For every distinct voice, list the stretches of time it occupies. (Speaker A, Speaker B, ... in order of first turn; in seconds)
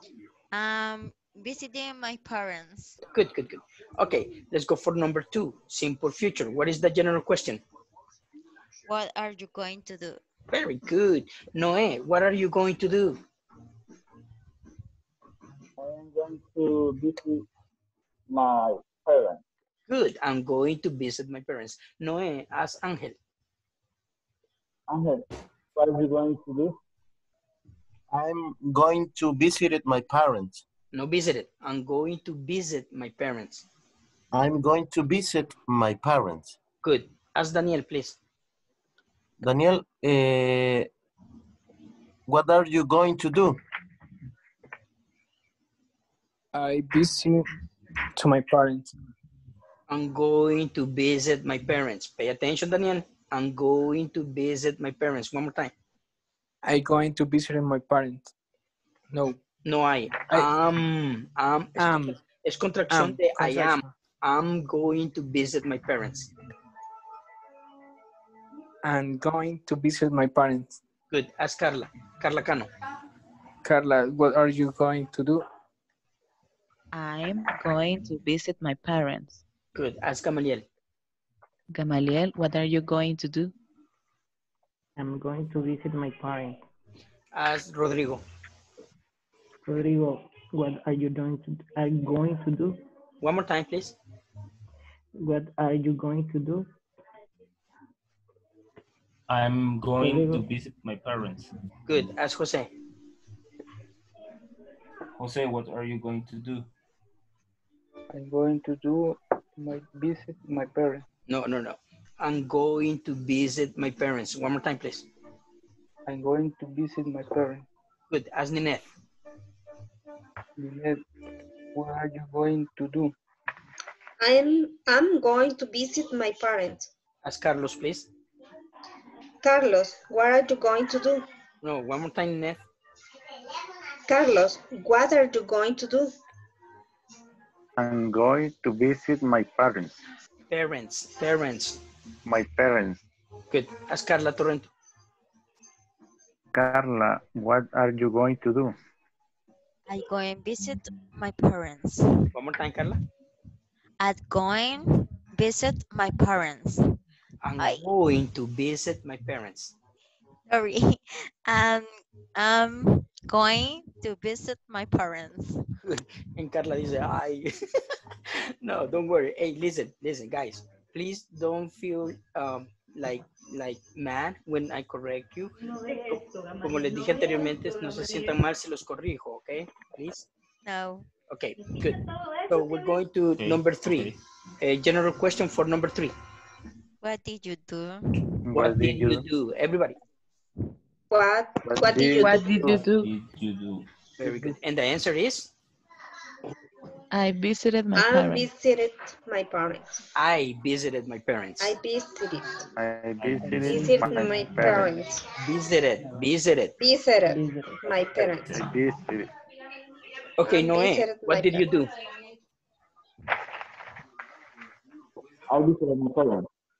Speaker A: 0.5-3.0, 8.9-10.2, 149.9-152.1, 154.0-156.8, 160.5-165.6, 180.6-181.1, 187.0-188.2
Speaker B: 3.1-7.6, 10.5-13.2, 19.9-23.1, 30.9-33.6, 36.8-38.2, 49.9-55.7, 59.6-66.3, 71.1-72.7, 79.7-80.7, 87.3-88.2, 93.2-94.0, 101.9-102.7, 111.3-115.1, 118.1-118.9, 127.2-128.1, 131.6-132.6, 140.5-141.8, 143.5-144.7, 152.3-153.0, 157.4-159.7, 165.8-167.5, 168.3-175.5, 176.6-180.3, 181.3-186.1, 188.5-190.0, 194.2-195.5, 200.2-201.8, 205.3-206.7, 210.4-211.9
Speaker C: 15.8-17.4, 18.3-19.4, 24.9-25.2, 25.7-26.7, 215.5-216.5
Speaker D: 28.1-30.6, 34.3-36.5, 39.4-40.9, 42.3-43.6
Speaker E: 46.5-47.5, 48.1-48.9, 56.6-58.3, 59.1-59.4, 61.8-62.2, 62.9-63.8, 68.8-70.8, 73.6-75.5
Speaker F: 76.9-79.4, 81.7-83.5, 192.2-193.1, 197.1-198.5
Speaker G: 85.0-86.6, 89.7-92.8, 95.2-96.7, 100.0-100.5, 175.7-178.2, 203.4-204.9, 207.2-208.3
Speaker H: 99.3-101.5, 105.2-106.7, 183.4-184.2, 192.7-193.9, 203.2-203.8, 208.2-208.7
Speaker I: 108.1-111.0, 116.0-117.7, 120.6-121.0, 121.7-123.1
Speaker J: 124.2-126.9, 129.4-131.2, 134.1-136.1, 191.1-192.8, 197.9-200.0, 201.6-202.7, 203.5-205.3, 206.8-208.6, 210.4-211.8
Speaker K: 137.8-140.0, 142.2-143.0, 146.5-148.8, 188.5-189.2, 191.6-192.8, 202.8-204.9, 208.5-209.3